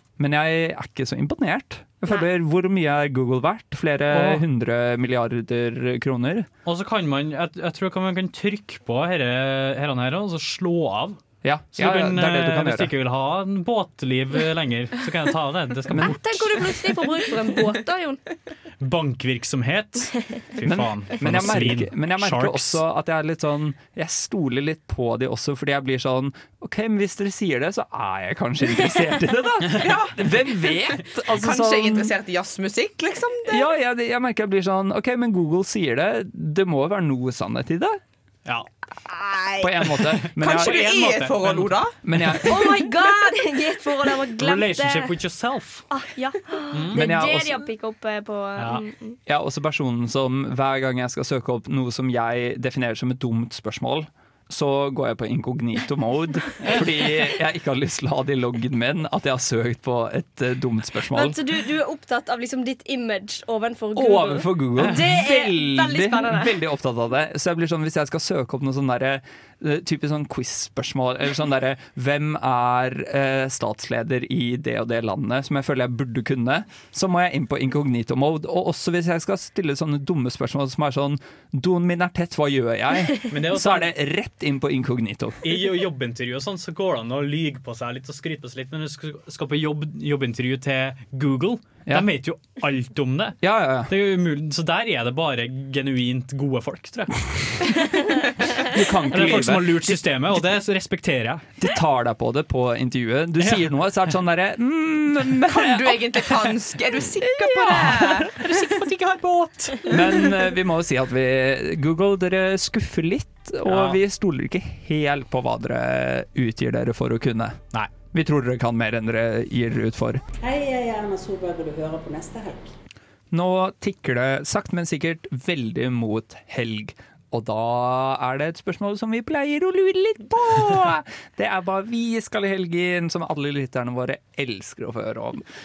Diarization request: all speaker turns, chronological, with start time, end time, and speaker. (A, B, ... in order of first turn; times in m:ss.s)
0:00.2-0:06.5 A
0:04.1-0:04.4 B
0:06.6-0:11.2 B
0:11.4-0:12.9 A
0:11.8-0:16.2 B
0:15.9-0:16.6 A
0:16.0-0:18.2 C
0:18.8-0:22.8 B
0:20.6-0:32.1 A
0:29.8-0:30.3 D
0:31.3-0:33.6 D
0:33.5-0:38.0 A
0:39.1-0:39.6 D
0:39.6-0:40.8 A
0:40.1-0:42.4 B
0:40.4-0:41.9 D
0:42.0-0:42.7 A
0:42.5-0:45.1 C
0:44.4-0:45.8 B
0:45.9-0:49.2 C
0:46.7-0:47.0 B
0:46.9-0:47.6 A
0:48.6-0:48.8 B
0:49.3-1:01.4 A
1:01.1-1:06.6 C
1:03.9-1:25.4 A
1:04.8-1:05.2 B
1:23.3-1:23.9 B
1:25.4-1:33.4 B
1:33.4-1:33.9 A
1:33.9-1:37.7 B
1:38.6-1:40.0 A
1:39.1-1:41.5 B
1:41.6-1:46.2 A
1:43.4-1:43.7 B
1:45.5-1:48.6 D
1:47.7-1:49.8 B
1:49.8-2:00.2 A
1:53.7-1:54.0 B
2:00.4-2:02.7 E
2:03.3-2:15.4 A